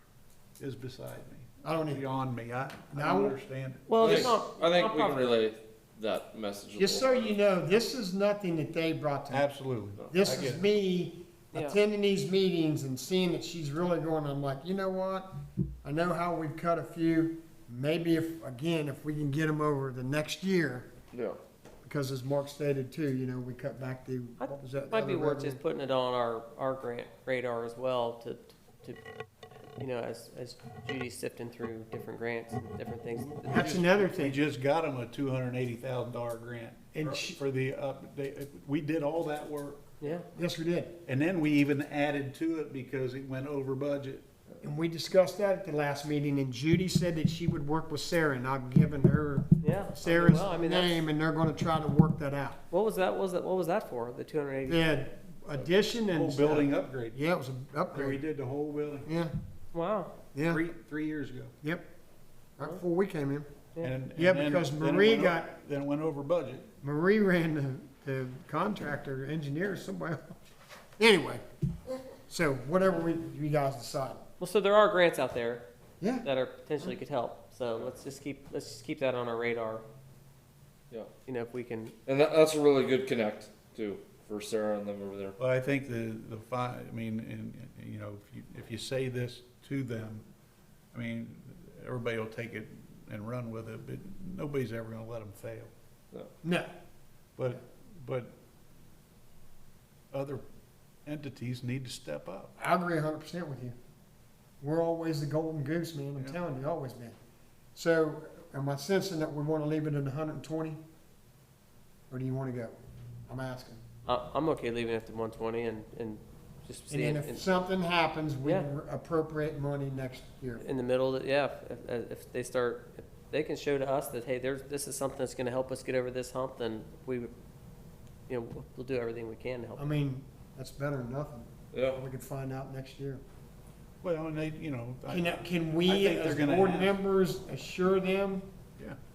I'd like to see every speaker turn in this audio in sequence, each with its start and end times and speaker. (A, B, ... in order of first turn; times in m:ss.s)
0:00.6-0:04.4 A
0:01.6-0:02.0 B
0:02.9-0:03.4 B
0:03.9-0:05.3 C
0:04.0-0:07.3 D
0:06.8-0:09.5 B
0:09.3-0:10.6 A
0:10.1-0:15.3 B
0:11.5-0:11.8 C
0:15.8-0:20.9 B
0:21.1-0:21.4 D
0:21.8-0:25.6 B
0:24.4-0:29.0 C
0:29.8-0:33.7 C
0:33.4-0:40.2 A
0:33.5-0:34.4 B
0:36.9-0:37.4 B
0:40.0-0:40.3 C
0:40.3-0:41.0 B
0:41.0-0:44.3 A
0:44.6-0:52.6 B
0:49.6-0:51.0 C
0:52.7-0:54.8 C
0:54.6-0:58.2 B
0:55.6-0:57.2 A
0:57.9-0:59.1 A
0:59.0-0:59.3 B
0:59.7-1:00.1 C
1:00.3-1:00.6 B
1:00.4-1:01.5 A
1:02.6-1:03.5 B
1:03.8-1:06.7 A
1:04.1-1:05.5 B
1:06.8-1:10.3 B
1:11.0-1:14.2 B
1:14.4-1:15.6 C
1:16.0-1:16.3 B
1:16.2-1:19.8 C
1:21.2-1:21.9 C
1:22.0-1:25.4 D
1:25.4-1:30.3 A
1:30.9-1:35.7 A
1:36.4-1:36.7 B
1:37.4-1:38.3 A
1:40.1-1:40.4 A
1:41.0-1:42.5 A
1:42.6-1:43.8 B
1:44.6-1:47.2 B
1:47.7-1:50.8 B
1:52.1-1:53.8 B
1:54.0-1:57.5 C
1:56.9-2:00.6 B
2:00.6-2:07.3 C
2:08.3-2:09.8 C
2:09.8-2:13.2 B
2:11.7-2:12.0 D
2:14.0-2:15.3 A
2:15.1-2:18.4 B
2:15.8-2:17.0 A